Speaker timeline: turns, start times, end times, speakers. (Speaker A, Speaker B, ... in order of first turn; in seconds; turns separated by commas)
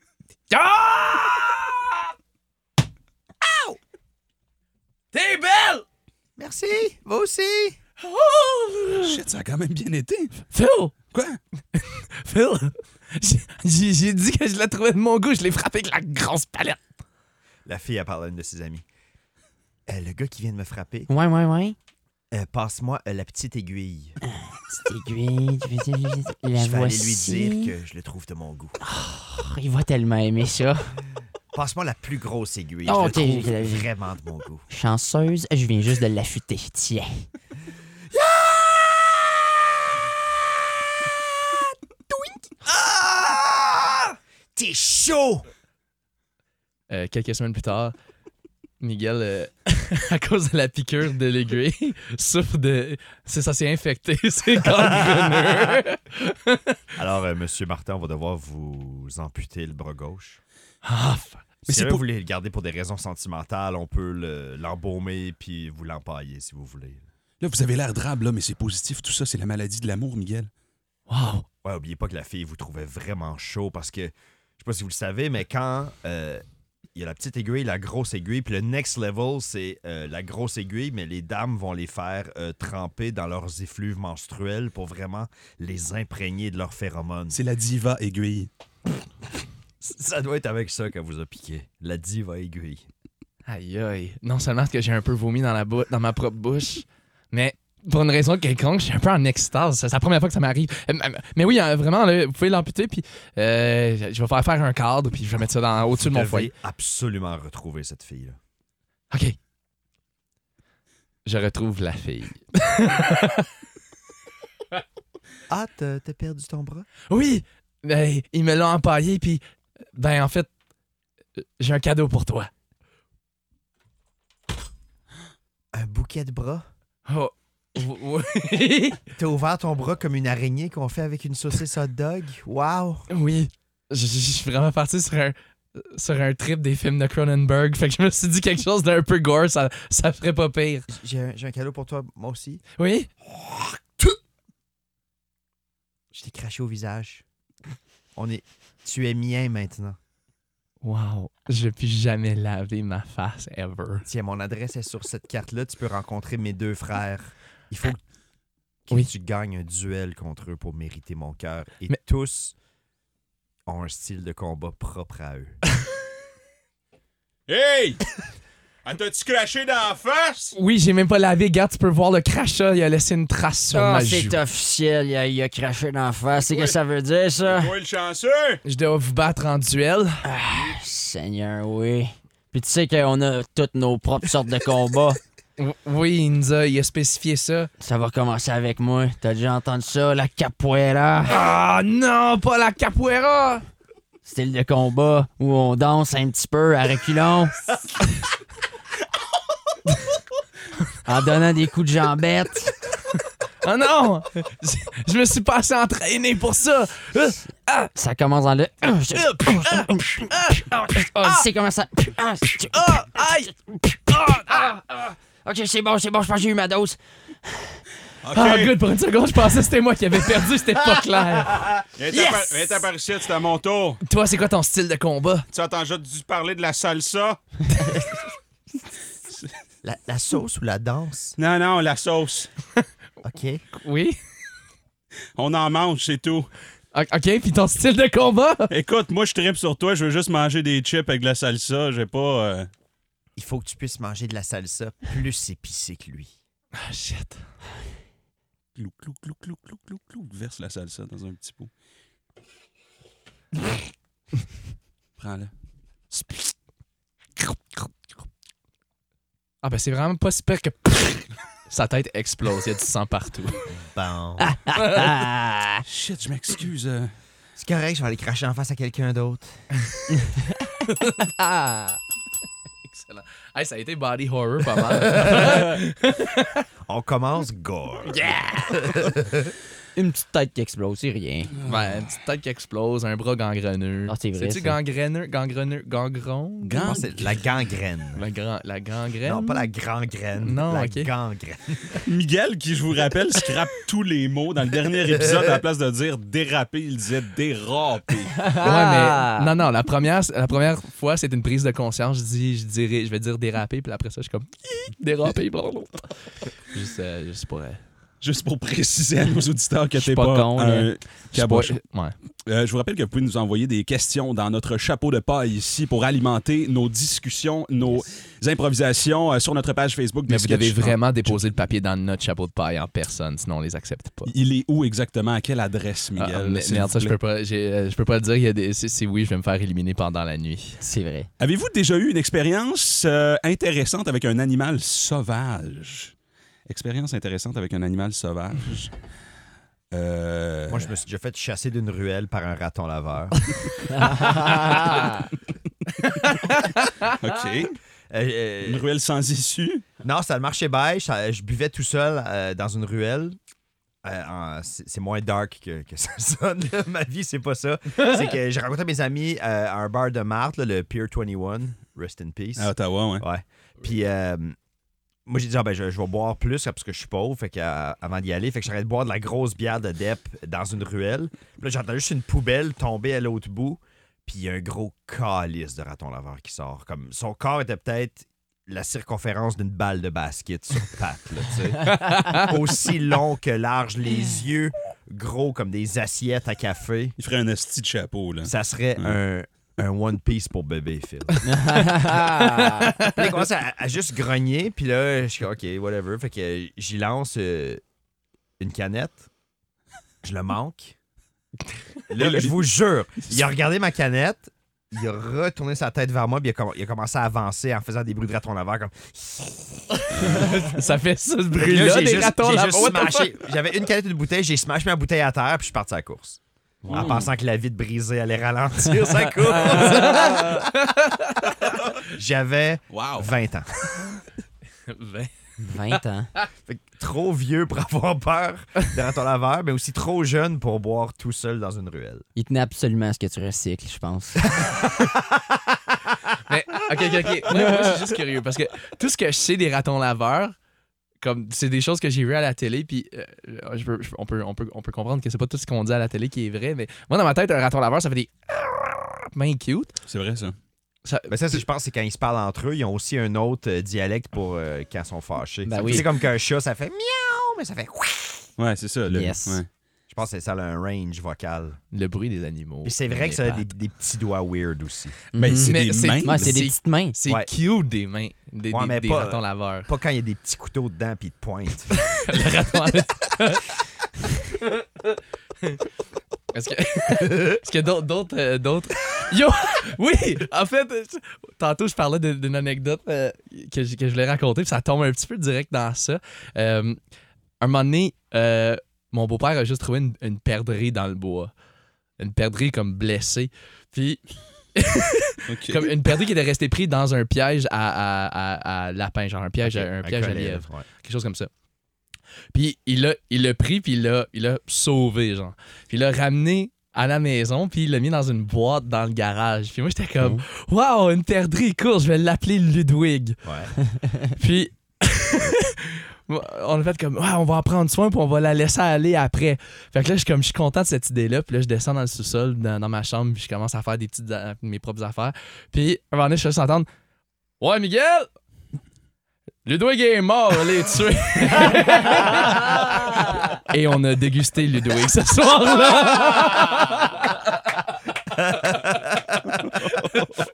Speaker A: 0.5-2.0, Speaker B: 3.4-3.8, Speaker A: 5.1-5.8, Speaker B: 6.4-7.8, Speaker A: 8.0-9.2, Speaker C: 9.0-10.4, Speaker A: 10.5-10.9, Speaker C: 11.1-11.4, Speaker A: 11.8-16.8, Speaker B: 17.7-18.9, Speaker B: 19.9-21.1, Speaker D: 21.1-21.8, Speaker B: 22.3-24.2, Speaker D: 24.3-27.7, Speaker B: 26.6-28.8, Speaker D: 28.8-31.0, Speaker B: 31.5-34.7, Speaker D: 32.9-33.8, Speaker D: 34.7-37.3, Speaker B: 38.1-39.6, Speaker B: 41.5-45.4, Speaker A: 46.9-47.9, Speaker A: 48.8-56.8, Speaker B: 54.8-55.7, Speaker B: 57.0-60.4, Speaker A: 60.8-61.5, Speaker C: 61.7-62.0, Speaker B: 61.7-67.0, Speaker C: 67.4-70.5, Speaker A: 71.1-71.5, Speaker B: 71.6-76.4, Speaker B: 77.0-87.4, Speaker C: 87.3-88.5, Speaker B: 89.8-92.9, Speaker A: 93.5-106.5, Speaker B: 106.0-108.4, Speaker A: 109.1-109.4, Speaker A: 111.2-113.5, Speaker B: 115.5-116.9, Speaker A: 117.1-119.4, Speaker A: 120.0-120.5, Speaker A: 121.4-122.5, Speaker B: 125.7-126.7, Speaker A: 127.1-129.0, Speaker B: 129.2-133.1, Speaker A: 133.1-140.9, Speaker B: 140.9-142.6, Speaker A: 142.8-143.1, Speaker B: 146.1-147.2, Speaker B: 148.2-150.0, Speaker A: 150.8-154.1, Speaker B: 154.1-158.0, Speaker B: 158.9-162.6, Speaker B: 163.7-165.6, Speaker C: 167.5-168.1, Speaker C: 168.8-170.6, Speaker A: 170.6-174.4, Speaker D: 173.7-177.7, Speaker C: 176.4-176.8, Speaker C: 177.4-178.6, Speaker A: 178.7-180.3, Speaker D: 180.2-185.2, Speaker A: 185.6-187.7, Speaker D: 187.8-191.4, Speaker A: 191.3-193.6, Speaker D: 194.2-197.6, Speaker D: 201.1-202.8, Speaker A: 203.6-207.9, Speaker D: 207.9-212.9, Speaker A: 209.1-211.4, Speaker A: 212.7-213.5, Speaker D: 213.8-217.0, Speaker C: 218.2-218.8, Speaker A: 218.3-222.7, Speaker C: 222.0-224.0, Speaker A: 224.0-225.4, Speaker C: 225.5-227.4, Speaker B: 229.8-231.4, Speaker C: 231.4-232.5, Speaker B: 233.2-233.6, Speaker A: 233.7-234.2, Speaker C: 235.4-236.5, Speaker A: 236.9-238.7, Speaker C: 238.7-242.7, Speaker B: 243.4-246.3, Speaker A: 246.8-247.5, Speaker C: 248.8-251.7, Speaker C: 255.2-255.5, Speaker A: 259.6-263.7, Speaker B: 263.7-264.6, Speaker D: 264.4-265.8, Speaker A: 264.8-265.1, Speaker C: 265.9-267.1, Speaker B: 267.6-269.6, Speaker A: 270.8-271.9, Speaker A: 272.8-276.6, Speaker B: 276.9-279.5, Speaker A: 278.1-278.9, Speaker D: 279.9-281.5, Speaker C: 281.6-282.0, Speaker A: 281.6-287.1, Speaker D: 284.1-284.8, Speaker C: 286.6-287.4, Speaker B: 286.8-288.2, Speaker A: 288.2-289.6, Speaker B: 289.2-292.0, Speaker A: 290.4-291.1, Speaker C: 292.0-298.5, Speaker D: 298.4-299.5, Speaker A: 298.6-307.8, Speaker C: 308.2-311.8, Speaker D: 310.0-310.9, Speaker A: 311.3-312.2, Speaker C: 312.5-321.4, Speaker A: 320.3-324.3, Speaker C: 324.3-327.1, Speaker A: 326.2-330.8, Speaker D: 330.8-331.3, Speaker C: 331.4-336.1, Speaker C: 336.7-338.9, Speaker C: 339.9-340.9, Speaker B: 340.7-343.5, Speaker D: 343.9-345.0, Speaker A: 344.1-344.9, Speaker A: 346.0-347.1, Speaker C: 347.1-347.8, Speaker B: 348.1-348.9, Speaker C: 348.6-349.9, Speaker B: 350.0-353.4, Speaker B: 354.0-364.6, Speaker C: 362.6-363.3, Speaker B: 365.3-387.2, Speaker A: 381.9-382.5, Speaker C: 387.2-389.2, Speaker B: 388.4-391.4, Speaker D: 391.5-392.9, Speaker A: 392.0-393.2, Speaker B: 393.1-397.8, Speaker B: 398.6-399.3, Speaker B: 400.2-400.9, Speaker B: 402.1-410.6, Speaker C: 402.1-402.6, Speaker C: 403.2-403.4, Speaker A: 410.1-413.3, Speaker B: 411.5-420.7, Speaker C: 416.9-417.3, Speaker A: 419.6-421.5, Speaker B: 421.7-424.0, Speaker C: 422.9-423.3, Speaker A: 424.9-425.3, Speaker D: 425.6-426.3, Speaker A: 425.9-426.4, Speaker B: 426.7-432.2, Speaker D: 432.4-434.5, Speaker B: 434.8-435.4, Speaker A: 436.5-440.6, Speaker A: 441.2-449.9, Speaker C: 450.1-450.6, Speaker A: 451.1-451.6, Speaker B: 451.3-458.5, Speaker D: 455.7-456.1, Speaker C: 458.6-459.7, Speaker D: 459.1-459.6, Speaker B: 460.1-461.8, Speaker A: 461.9-463.7, Speaker B: 462.9-465.2, Speaker D: 465.4-467.1, Speaker C: 465.4-466.6, Speaker A: 465.6-469.9, Speaker B: 468.7-472.1, Speaker A: 471.9-473.7, Speaker A: 476.5-487.0, Speaker A: 487.6-491.5, Speaker A: 492.2-494.2, Speaker A: 494.7-501.5, Speaker C: 495.5-495.9, Speaker B: 499.6-500.9, Speaker A: 502.5-513.5, Speaker B: 513.5-513.7, Speaker A: 514.4-526.9, Speaker A: 527.6-528.3, Speaker A: 529.7-537.4, Speaker A: 538.6-538.9, Speaker A: 540.0-540.3